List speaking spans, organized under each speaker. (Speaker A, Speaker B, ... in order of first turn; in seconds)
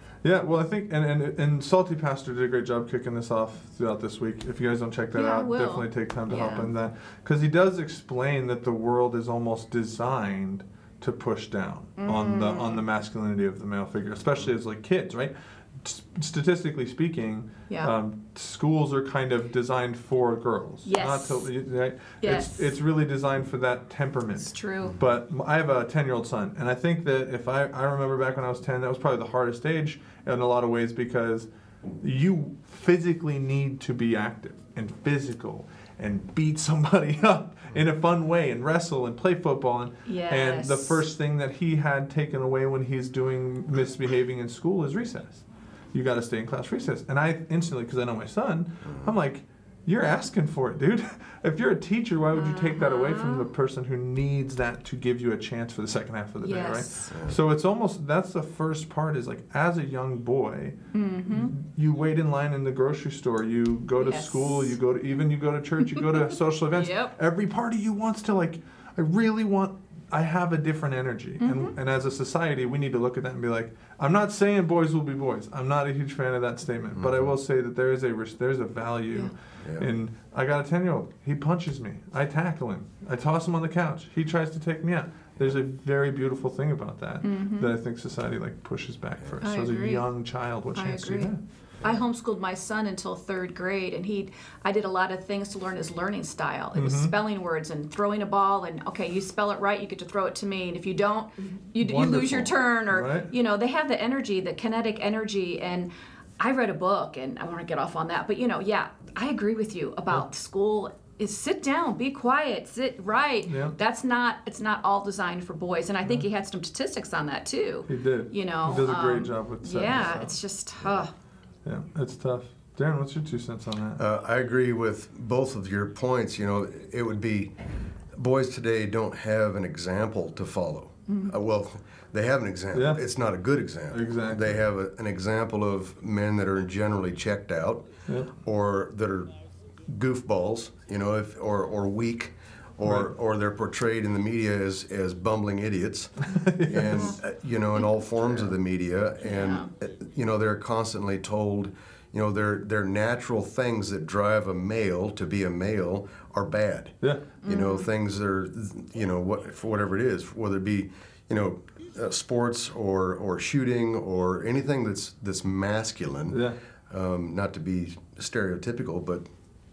Speaker A: 0.2-31.5, 32.0-60.8, 61.3-91.4, 96.8-97.1, 101.8-103.3, 113.5-113.8, 117.9-120.3, 121.7-124.0, 132.7-133.0, 133.9-134.6, 138.1-138.3, 142.8-143.1, 146.3-147.2, 157.0-157.3, 166.3-166.6
Speaker B: 5.1-6.7, 12.0-12.8, 20.8-21.5, 22.2-22.8, 24.4-25.0, 40.1-41.0, 52.3-53.5, 56.4-57.1, 60.9-61.5, 64.0-64.8, 66.7-67.1, 71.4-71.7, 87.2-87.8, 89.4-90.1, 90.7-121.1, 131.1-131.3, 149.2-149.7, 157.4-157.9
Speaker C: 48.9-49.1, 57.1-57.4, 76.9-77.3, 79.6-79.9, 120.0-120.3, 124.0-127.6, 128.1-139.3, 139.9-146.1, 146.7-169.3